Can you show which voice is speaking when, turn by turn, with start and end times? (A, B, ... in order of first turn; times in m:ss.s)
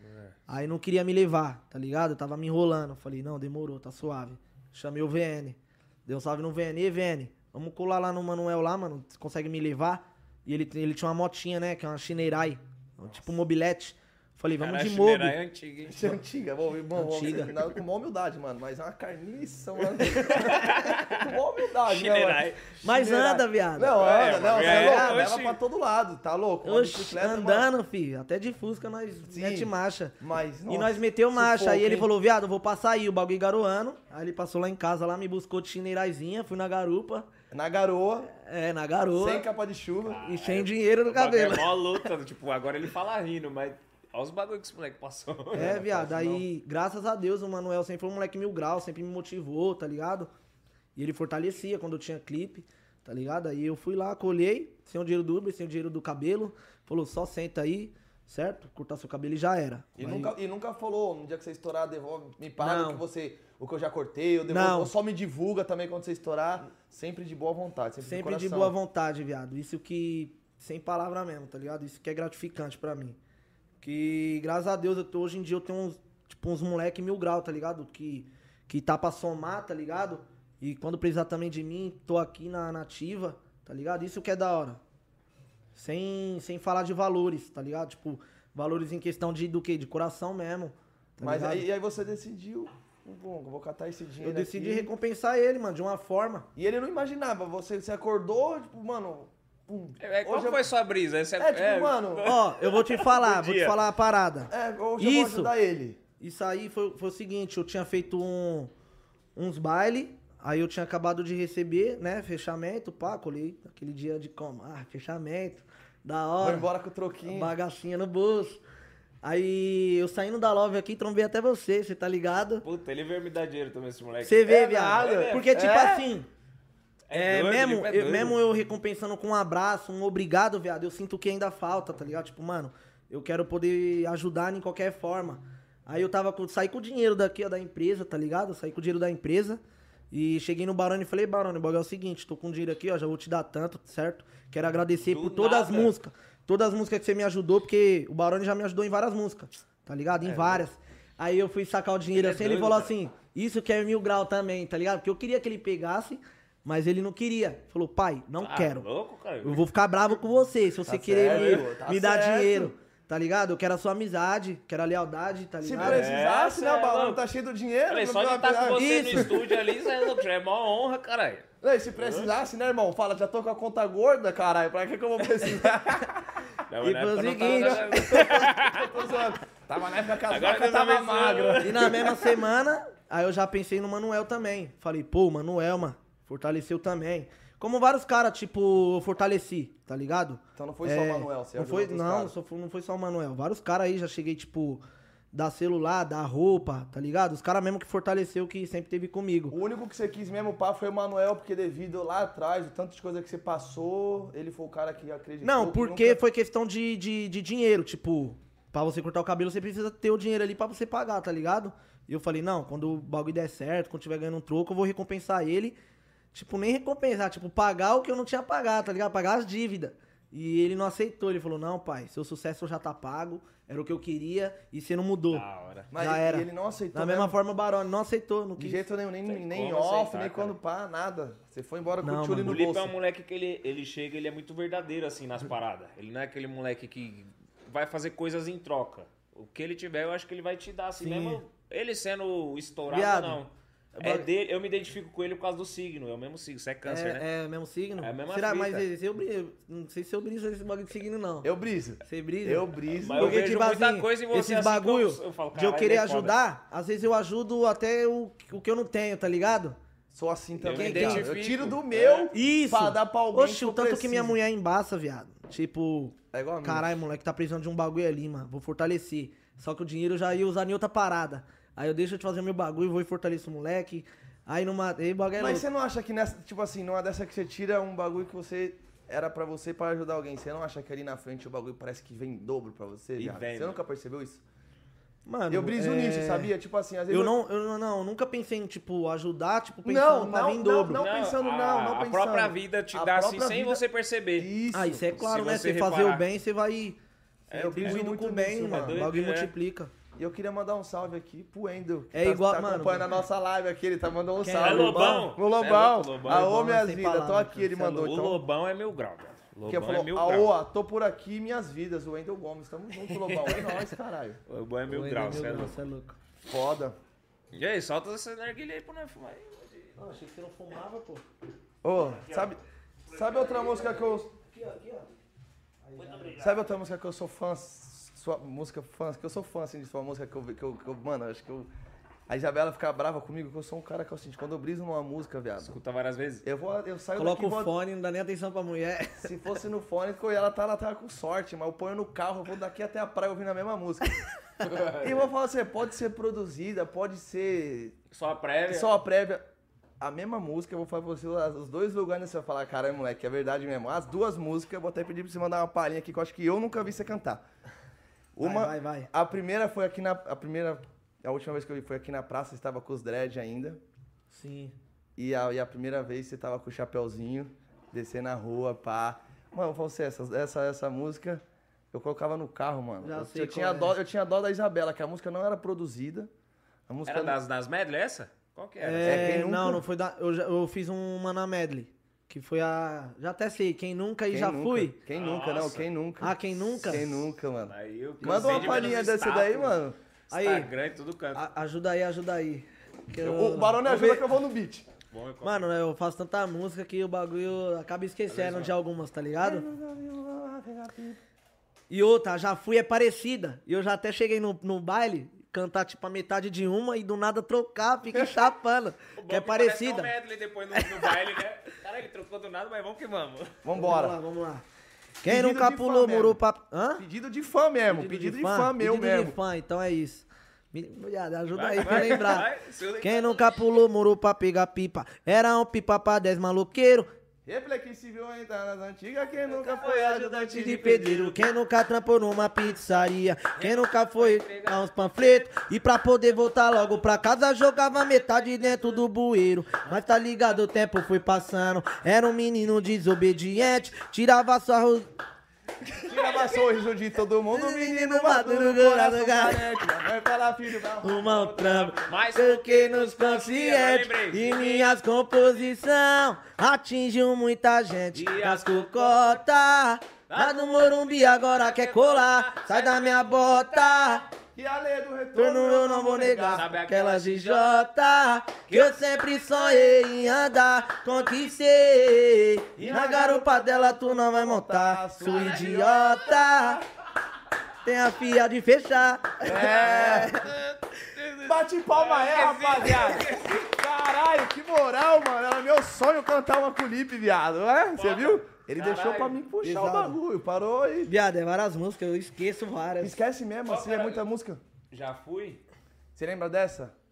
0:00.5-0:15.4 A
0:14.5-0:16.2 B
0:15.9-0:27.7 C
0:16.9-0:17.6 A
0:20.0-0:22.6 B
0:22.8-0:25.3 A
0:23.9-0:25.6 B
0:26.6-0:37.3 A
0:29.3-0:32.1 C
0:37.5-0:38.3 C
0:38.3-0:39.4 A
0:39.1-0:40.2 C
0:40.1-0:45.8 B
0:40.2-0:41.9 A
0:45.5-0:46.4 C
0:45.5-0:50.3 A
0:51.0-1:00.3 A
1:00.0-1:08.7 C
1:02.6-1:03.0 A
1:04.5-1:04.9 A
1:08.0-1:13.2 A
1:13.8-1:24.8 A
1:25.7-1:31.6 A
1:31.2-1:34.9 C
1:34.2-1:36.5 A
1:36.6-1:40.6 C
1:40.0-1:43.8 B
1:41.4-1:42.3 C
1:42.2-1:45.5 A
1:44.5-1:46.0 C
1:46.2-1:48.7 A
1:49.4-1:56.7 A
1:56.4-1:57.5 C
1:57.3-1:58.6 A
1:59.2-2:02.6 A
2:02.6-2:05.5 B
2:04.2-2:06.3 A
2:04.4-2:06.1 C
2:07.1-2:08.4 B
2:07.1-2:19.6 A
2:20.1-2:38.8 A
2:25.0-2:25.9 B
2:30.2-2:30.6 B
2:32.1-2:32.9 B
2:38.4-2:39.6 B
2:39.4-2:46.1 A
2:40.8-2:42.7 C
2:41.2-2:41.7 B
2:45.6-2:49.5 C
2:45.8-2:47.2 B
2:47.9-2:52.3 B
2:48.7-2:49.4 A
2:51.6-2:56.2 C
2:56.7-2:58.9 B
2:56.8-2:58.4 A
2:57.4-3:02.3 C
3:00.2-3:02.2 B
3:01.6-3:19.6 A
3:10.6-3:12.3 C
3:19.5-3:26.2 C
3:25.4-3:35.8 A
3:36.3-3:45.4 A
3:45.3-3:45.9 B
3:45.9-3:47.3 C
3:46.0-3:48.8 A
3:48.6-3:52.9 C
3:49.2-3:50.5 B
3:52.0-3:52.6 A
3:52.4-4:07.2 B
4:01.0-4:01.4 A
4:02.9-4:03.4 A
4:03.9-4:04.3 A
4:06.8-4:11.5 A
4:08.0-4:08.8 B
4:11.4-4:13.5 C
4:12.0-4:19.8 A
4:13.0-4:16.3 B
4:20.1-4:24.4 C
4:20.6-4:22.3 B
4:20.7-4:21.3 A
4:22.3-4:35.6 A
4:26.3-4:26.9 C
4:35.4-4:44.4 C
4:43.2-4:43.8 B
4:45.2-4:46.5 A
4:45.5-4:47.3 C
4:47.1-4:51.0 A
4:49.8-4:53.8 C
4:50.9-4:54.5 B
4:54.4-4:55.0 C
4:54.7-4:59.9 A
4:55.1-4:56.2 B
4:57.5-4:58.0 B
4:57.5-4:59.0 C
4:58.6-4:59.5 B
5:00.2-5:08.4 C
5:02.1-5:03.1 A
5:04.4-5:05.3 A
5:04.5-5:06.5 B
5:06.3-5:08.1 A
5:07.9-5:10.5 B
5:09.7-5:14.4 C
5:13.0-5:13.9 B
5:14.5-5:15.7 B
5:14.9-5:16.2 A
5:16.4-5:17.0 C
5:17.5-5:20.0 B
5:20.0-5:21.2 A
5:21.8-5:22.6 C
5:22.0-5:22.5 B
5:23.1-5:23.8 B
5:23.1-5:24.3 C
5:24.2-5:25.1 A
5:25.8-5:26.4 A
5:26.0-5:26.6 B
5:26.4-5:31.7 C
5:32.3-5:35.7 C
5:35.6-5:36.4 B
5:36.4-5:37.7 C
5:37.2-5:39.3 A
5:39.2-5:44.1 C
5:44.6-5:45.2 B
5:45.0-5:48.0 C
5:48.1-5:48.9 B
5:48.7-5:49.4 C
5:50.0-5:57.4 C
5:58.3-6:03.8 C
5:58.4-5:59.1 A
6:04.3-6:04.7 A
6:05.2-6:16.3 C
6:13.0-6:13.9 A
6:16.9-6:17.4 C
6:17.0-6:19.4 B
6:18.8-6:25.0 A
6:19.0-6:19.8 C
6:24.3-6:30.0 C
6:25.1-6:25.9 B
6:26.2-6:27.3 A
6:27.7-6:29.8 B
6:28.2-6:29.0 A
6:30.3-6:30.7 A
6:30.3-6:31.4 B
6:31.3-6:34.2 A
6:33.2-6:34.9 C
6:35.1-6:35.7 B
6:35.4-6:39.6 A
6:38.3-6:38.7 B
6:39.4-6:41.2 C
6:41.9-6:50.1 A
6:49.2-6:53.6 B
6:50.7-6:51.1 A
6:53.6-6:54.2 C
6:53.7-6:54.6 A
6:55.2-6:57.0 A
6:55.2-6:56.4 C
6:57.0-6:59.4 C
6:57.9-7:02.5 A
7:01.5-7:03.8 B
7:01.8-7:02.3 C
7:03.0-7:07.1 A
7:07.4-7:11.1 C
7:09.5-7:11.5 B
7:10.6-7:25.1 A
7:13.6-7:14.8 B
7:26.0-7:31.3 C
7:26.1-7:26.5 B
7:27.5-7:29.6 A
7:31.0-7:44.2 A
7:31.2-7:35.0 B
7:38.1-7:39.4 B
7:40.3-7:43.6 B
7:44.5-7:46.7 C
7:45.4-7:56.8 A
7:46.2-7:47.8 B
7:48.7-7:49.9 B
7:52.8-7:53.4 B
7:52.8-7:56.5 C
7:55.2-7:56.6 B
7:57.8-8:00.5 A
7:59.4-8:00.4 C
7:59.4-8:03.6 B
8:01.4-8:11.1 C
8:08.0-8:09.4 B
8:09.6-8:10.2 A
8:11.1-8:13.2 A
8:13.0-8:14.6 C
8:13.7-8:14.2 B
8:14.9-8:15.6 B
8:16.1-8:16.9 C